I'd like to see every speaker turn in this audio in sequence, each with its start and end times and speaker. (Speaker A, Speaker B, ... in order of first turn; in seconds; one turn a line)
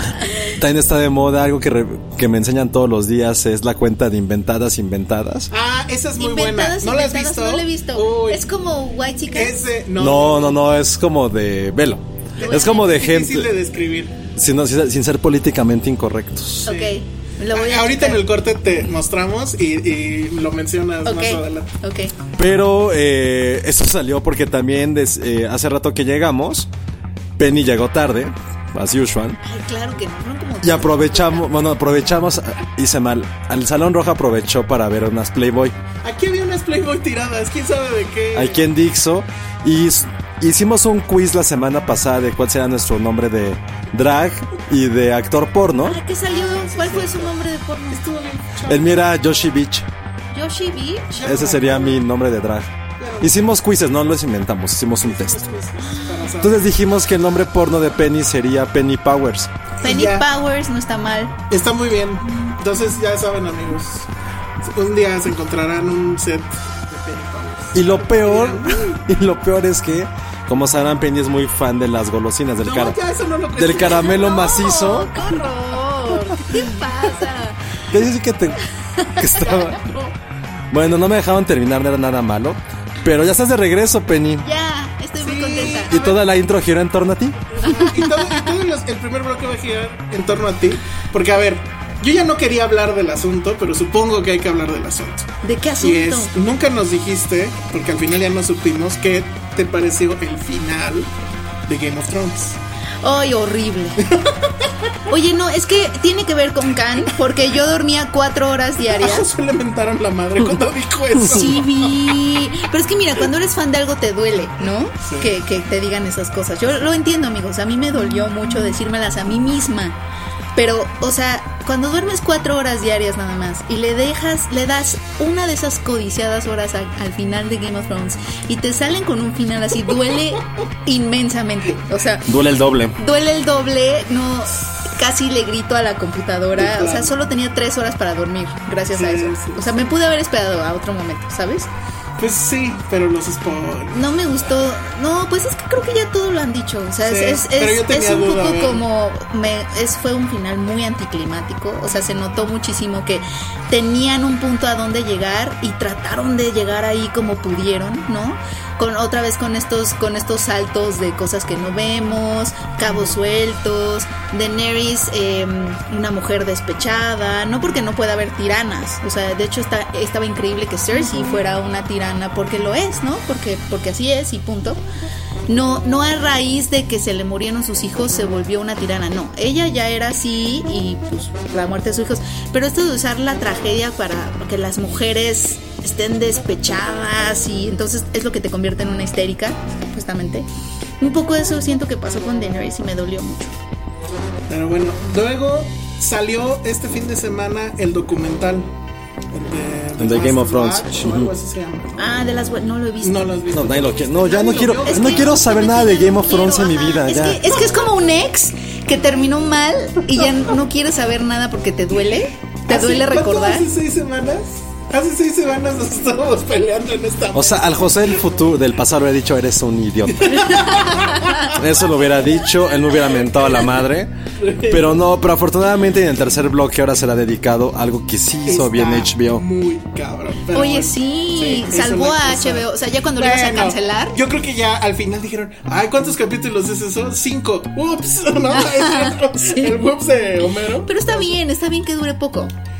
Speaker A: 0.5-5.5
Speaker B: 5.5-8.4
Speaker C: 6.2-9.6
Speaker B: 9.3-10.6
Speaker A: 10.0-13.5
Speaker C: 12.4-12.9
Speaker B: 12.4-14.1
Speaker A: 14.3-16.7
Speaker C: 16.6-18.2
Speaker B: 16.6-17.0
Speaker B: 17.5-21.7
Speaker C: 21.0-22.1
Speaker A: 22.4-26.7
Speaker A: 27.4-29.4
Speaker C: 29.4-31.6
Speaker A: 30.6-35.7
Speaker B: 36.0-38.6
Speaker A: 38.3-46.0
Speaker C: 45.8-48.0
Speaker B: 46.3-47.4
Speaker B: 47.9-49.1
Speaker A: 48.6-49.9
Speaker C: 50.3-51.3
Speaker B: 51.1-52.0
Speaker A: 51.2-55.4
Speaker B: 53.0-53.4
Speaker B: 55.0-56.7
Speaker C: 55.8-56.1
Speaker A: 56.4-59.5
Speaker B: 59.8-60.2
Speaker C: 59.8-61.3
Speaker B: 61.5-64.1
Speaker B: 64.6-69.0
Speaker A: 67.7-73.0
Speaker B: 72.6-74.2
Speaker A: 73.5-75.1
Speaker C: 74.0-77.6
Speaker A: 77.9-78.6
Speaker C: 79.0-79.6
Speaker A: 79.2-79.8
Speaker B: 79.4-80.1
Speaker A: 80.7-84.5
Speaker C: 84.4-86.0
Speaker B: 85.2-86.2
Speaker A: 85.8-87.4
Speaker B: 87.5-95.3
Speaker C: 87.6-88.5
Speaker C: 95.4-96.3
Speaker B: 95.8-101.1
Speaker B: 101.7-102.6
Speaker C: 103.0-104.2
Speaker B: 104.0-104.3
Speaker C: 105.1-109.3
Speaker B: 108.8-112.1
Speaker C: 111.3-120.0
Speaker B: 115.0-115.3
Speaker C: 120.5-132.3
Speaker A: 132.3-132.9
Speaker C: 132.9-141.7
Speaker B: 136.6-137.2
Speaker B: 138.9-140.0
Speaker B: 142.2-144.5
Speaker C: 143.9-174.8
Speaker B: 147.0-148.8
Speaker C: 175.5-190.5
Speaker C: 191.0-193.5
Speaker B: 194.5-198.7
Speaker B: 199.3-202.2
Speaker A: 200.0-201.3
Speaker C: 202.0-203.3
Speaker B: 203.0-205.4
Speaker A: 203.5-207.4
Speaker C: 204.8-213.7
Speaker B: 212.7-218.2
Speaker A: 217.3-224.1
Speaker B: 220.1-221.5
Speaker B: 224.4-225.0
Speaker A: 224.7-229.4
Speaker B: 228.4-241.4
Speaker C: 230.5-234.2
Speaker C: 238.5-239.8
Speaker C: 240.8-242.5